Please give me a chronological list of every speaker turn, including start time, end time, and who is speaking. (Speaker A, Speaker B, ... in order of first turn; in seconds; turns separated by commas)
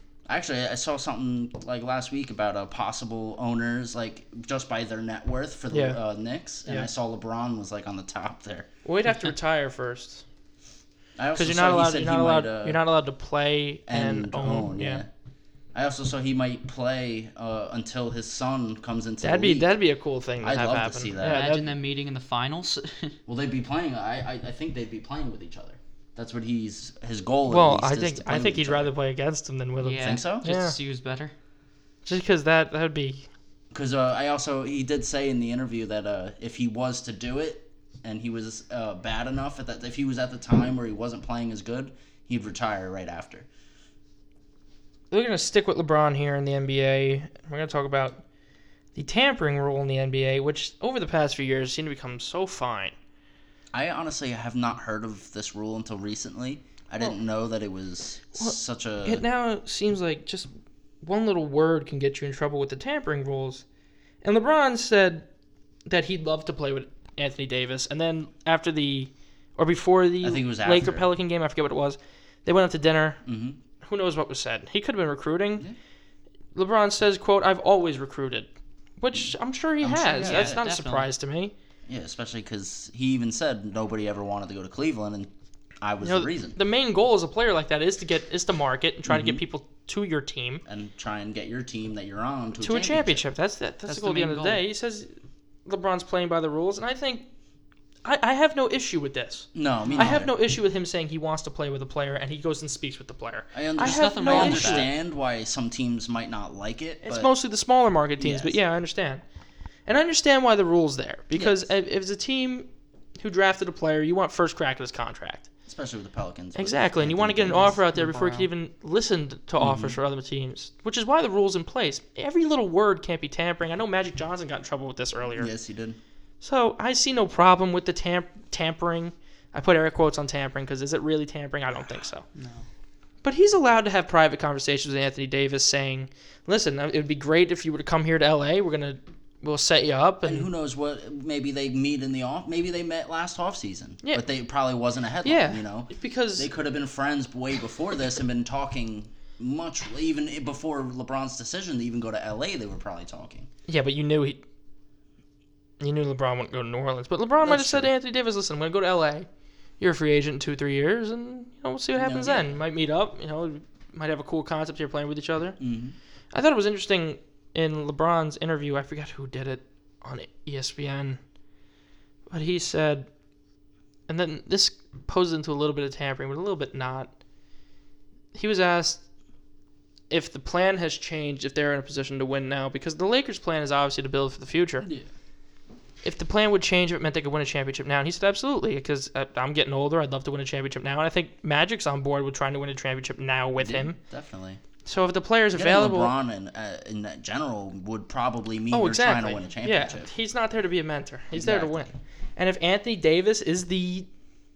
Speaker A: 0.3-8.7, Speaker B: 5.7-6.0, Speaker B: 8.8-10.2, Speaker A: 11.2-12.8, Speaker B: 11.4-15.0, Speaker A: 13.9-15.1, Speaker A: 15.7-19.7, Speaker B: 19.2-21.6, Speaker A: 20.4-21.5, Speaker C: 21.2-23.1, Speaker A: 23.3-28.9, Speaker B: 27.5-30.8, Speaker C: 29.8-31.3, Speaker A: 30.0-30.5, Speaker B: 32.1-33.3, Speaker A: 33.7-43.5, Speaker B: 45.1-48.2, Speaker B: 49.0-53.0, Speaker A: 53.7-59.2, Speaker B: 58.4-60.5, Speaker B: 61.0-63.6, Speaker B: 64.2-65.3, Speaker B: 65.9-73.2, Speaker A: 70.2-71.1, Speaker A: 73.2-73.6, Speaker B: 73.8-75.7, Speaker B: 76.5-81.5, Speaker A: 79.8-80.6, Speaker C: 80.2-81.1, Speaker A: 81.9-86.6, Speaker B: 86.0-90.6, Speaker A: 89.1-89.4, Speaker A: 90.7-93.2, Speaker B: 92.6-95.1, Speaker C: 93.9-94.6, Speaker B: 95.7-97.3, Speaker B: 98.0-104.9, Speaker A: 99.5-100.3, Speaker A: 103.5-107.3, Speaker C: 103.8-104.9, Speaker B: 107.0-109.2, Speaker A: 108.2-108.6, Speaker B: 109.9-115.5, Speaker A: 111.4-111.7, Speaker A: 115.7-117.8, Speaker B: 116.6-125.5, Speaker C: 117.7-118.5, Speaker A: 119.6-120.0, Speaker A: 125.4-126.0, Speaker B: 126.4-132.3, Speaker C: 132.3-132.7, Speaker B: 133.2-140.5, Speaker A: 140.2-153.5, Speaker B: 145.2-146.5, Speaker B: 153.7-154.4, Speaker B: 155.8-159.3, Speaker A: 157.4-157.9, Speaker B: 159.8-165.6, Speaker A: 162.0-162.6, Speaker A: 165.6-166.0, Speaker B: 166.3-171.2, Speaker B: 172.3-173.1, Speaker B: 174.1-177.1, Speaker B: 178.3-179.0, Speaker B: 180.1-184.9, Speaker A: 184.8-185.1, Speaker B: 186.0-194.0, Speaker A: 193.6-194.6, Speaker B: 194.8-196.1, Speaker A: 195.5-200.1, Speaker B: 198.7-204.1, Speaker A: 201.3-201.9